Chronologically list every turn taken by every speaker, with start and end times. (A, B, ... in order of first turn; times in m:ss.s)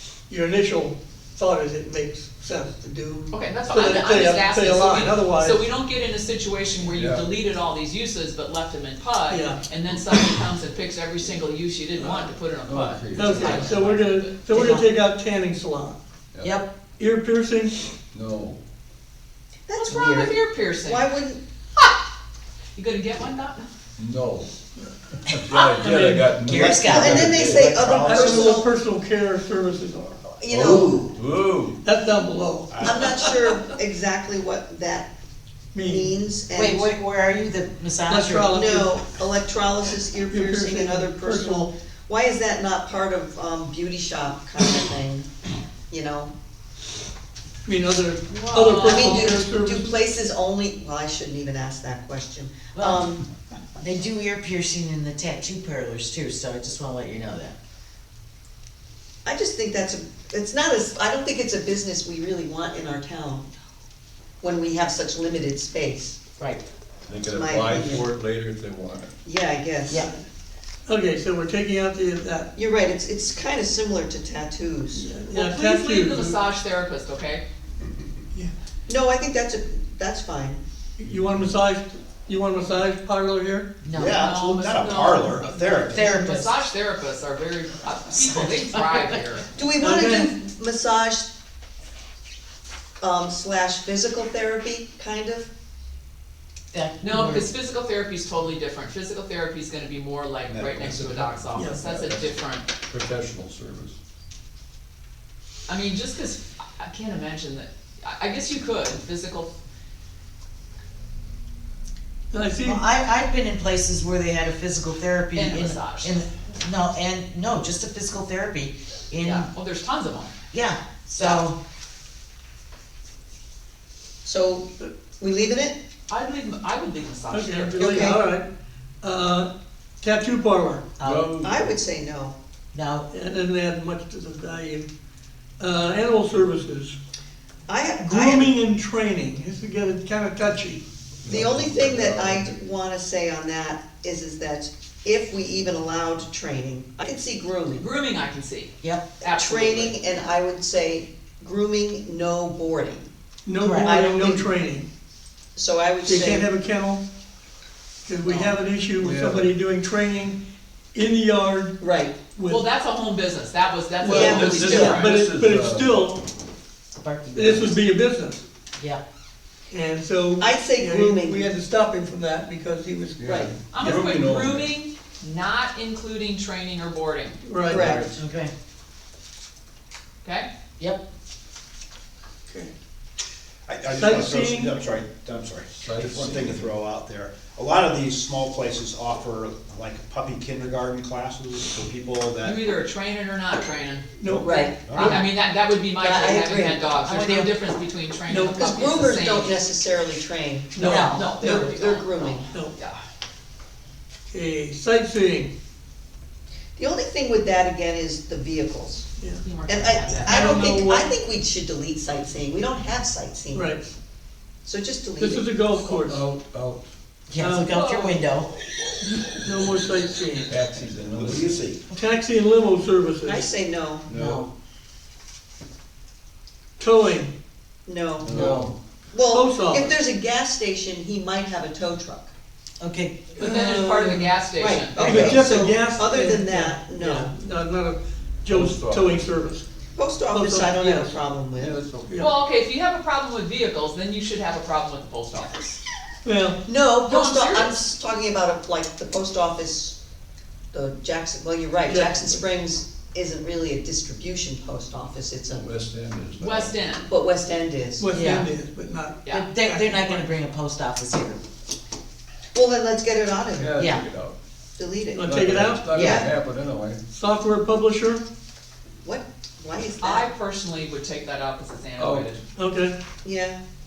0:00.3-0:05.6 A
0:03.3-0:14.3 B
0:06.9-0:07.3 C
0:09.3-0:09.6 A
0:12.7-0:13.9 C
0:13.2-0:16.0 A
0:14.5-0:14.8 D
0:16.4-0:16.7 D
0:17.0-0:17.8 A
0:18.1-0:18.6 C
0:19.7-0:21.4 E
0:19.8-0:21.1 B
0:22.8-0:23.7 B
0:24.0-0:24.5 C
0:25.3-0:27.7 C
0:25.5-0:26.3 A
0:26.4-0:27.3 D
0:26.5-0:28.6 F
0:26.8-0:28.7 E
0:28.0-0:30.2 A
0:30.3-0:31.2 E
0:30.5-0:31.8 C
0:31.8-0:33.6 A
0:32.7-0:33.1 F
0:32.8-0:35.1 E
0:35.7-0:36.2 A
0:35.8-0:36.9 E
0:36.5-0:38.5 D
0:38.1-0:39.0 A
0:38.5-0:45.3 E
0:40.3-0:41.7 A
0:45.9-0:46.3 E
0:47.6-0:50.0 A
0:48.3-0:49.1 D
0:48.5-0:49.2 B
0:48.8-0:53.3 E
0:52.7-0:53.0 D
0:53.8-0:57.6 D
0:59.2-1:03.5 E
1:04.4-1:06.2 E
1:07.1-1:09.1 C
1:07.3-1:08.1 E
1:09.2-1:10.1 E
1:10.8-1:12.5 A
1:12.5-1:15.1 E
1:15.0-1:16.4 A
1:15.3-1:17.4 B
1:18.9-1:20.6 E
1:21.0-1:23.7 A
1:23.8-1:24.2 D
1:23.9-1:26.0 F
1:24.1-1:29.5 B
1:25.4-1:25.9 A
1:25.8-1:26.6 D
1:28.2-1:29.2 D
1:29.5-1:31.3 E
1:29.8-1:30.3 A
1:33.0-1:35.5 E
1:36.7-1:37.5 D
1:37.0-1:42.7 B
1:40.5-1:41.5 F
1:41.5-1:41.8 A
1:41.7-1:42.3 C
1:42.9-1:43.9 C
1:45.7-1:49.5 B
1:52.3-1:52.8 A
1:52.6-1:59.5 D
1:55.3-1:56.2 B
1:59.2-2:00.3 B
2:00.5-2:01.6 D
2:01.2-2:01.4 B
2:04.2-2:05.8 E
2:06.1-2:08.1 B
2:07.3-2:08.5 A
2:07.8-2:08.2 E
2:09.0-2:09.5 A
2:10.0-2:10.8 A
2:11.0-2:11.3 D
2:11.0-2:11.8 C
2:11.4-2:12.4 E
2:12.7-2:13.1 D
2:13.1-2:14.9 A
2:15.6-2:17.0 A
2:17.7-2:18.6 E
2:18.0-2:20.8 A
2:21.2-2:22.4 C
2:21.2-2:27.9 E
2:27.7-2:30.0 B
2:28.8-2:29.1 D
2:29.2-2:33.1 E
2:33.5-2:34.9 A
2:33.6-2:34.1 D
2:33.8-2:34.5 E
2:35.6-2:36.5 E
2:36.0-2:37.0 A
2:38.0-2:40.4 A
2:38.2-2:38.6 E
2:39.0-2:39.5 C
2:40.9-2:41.8 A
2:41.8-2:42.2 E
2:42.3-2:42.6 A
2:42.5-2:45.2 B
2:44.0-2:46.2 A
2:44.1-2:45.0 E
2:44.1-2:46.1 C
2:47.0-2:47.8 D
2:47.3-2:48.4 A
2:49.7-2:53.5 A
2:50.4-2:51.5 E
2:53.2-2:54.7 C
2:53.2-2:53.5 E
2:53.7-2:57.4 B
2:57.4-2:57.9 A
2:57.6-2:58.1 E
2:57.7-2:58.2 C
2:58.1-2:58.5 D
3:00.2-3:00.5 B
3:03.7-3:12.7 F
3:03.9-3:04.7 A
3:05.7-3:06.7 C
3:12.4-3:14.0 B
3:14.2-3:15.2 A
3:14.2-3:15.2 F
3:14.4-3:15.2 E
3:15.0-3:19.6 B
3:16.0-3:16.8 E
3:17.0-3:17.5 D
3:18.3-3:19.1 A
3:18.6-3:22.5 E
3:20.7-3:21.3 A
3:20.8-3:23.0 B
3:20.8-3:21.5 D
3:24.3-3:25.5 A
3:26.8-3:29.1 E
3:29.4-3:30.6 B
3:29.7-3:33.8 E
3:30.2-3:31.1 A
3:33.5-3:33.9 A
3:34.6-3:35.6 E
3:35.2-3:36.2 A
3:36.0-3:36.8 C
3:37.3-3:38.5 D
3:37.4-3:37.7 A
3:37.6-3:38.2 B
3:39.0-3:40.5 A
3:40.5-3:41.7 C
3:41.1-3:41.8 F
3:41.9-3:43.5 A
3:43.2-3:44.1 E
3:44.1-3:44.4 C
3:44.1-3:44.5 D
3:46.8-3:47.3 A
3:47.9-3:48.3 E
3:48.2-3:48.8 C
3:48.2-3:48.7 D
3:49.1-3:52.3 E
3:49.3-3:50.0 A
3:52.8-3:53.2 D
3:53.3-3:54.3 A
3:53.4-3:55.0 B
3:54.6-3:57.3 E
3:55.0-3:55.3 D
3:55.0-3:59.6 A
3:55.0-3:55.5 C
3:58.5-3:59.2 C
4:00.0-4:01.8 E
4:00.3-4:01.2 A
4:01.5-4:02.3 C
4:02.1-4:02.3 A
4:02.2-4:05.8 B
4:06.2-4:06.6 A
4:06.6-4:10.0 E
4:07.1-4:07.8 B
4:10.7-4:15.7 E
4:11.8-4:12.4 A
4:15.5-4:16.7 C
4:16.4-4:17.1 B
4:17.1-4:18.1 E
4:18.0-4:20.1 A
4:18.1-4:18.5 D
4:19.3-4:21.4 D
4:22.5-4:23.8 E
4:23.5-4:24.4 C
4:23.8-4:24.0 D
4:24.8-4:25.3 E
4:25.2-4:25.9 A
4:25.2-4:27.0 C
4:25.9-4:26.3 E
4:25.9-4:26.2 D
4:27.1-4:28.2 A
4:29.0-4:30.3 E
4:30.0-4:32.4 B
4:32.0-4:32.3 C
4:32.6-4:32.9 A
4:33.2-4:33.6 E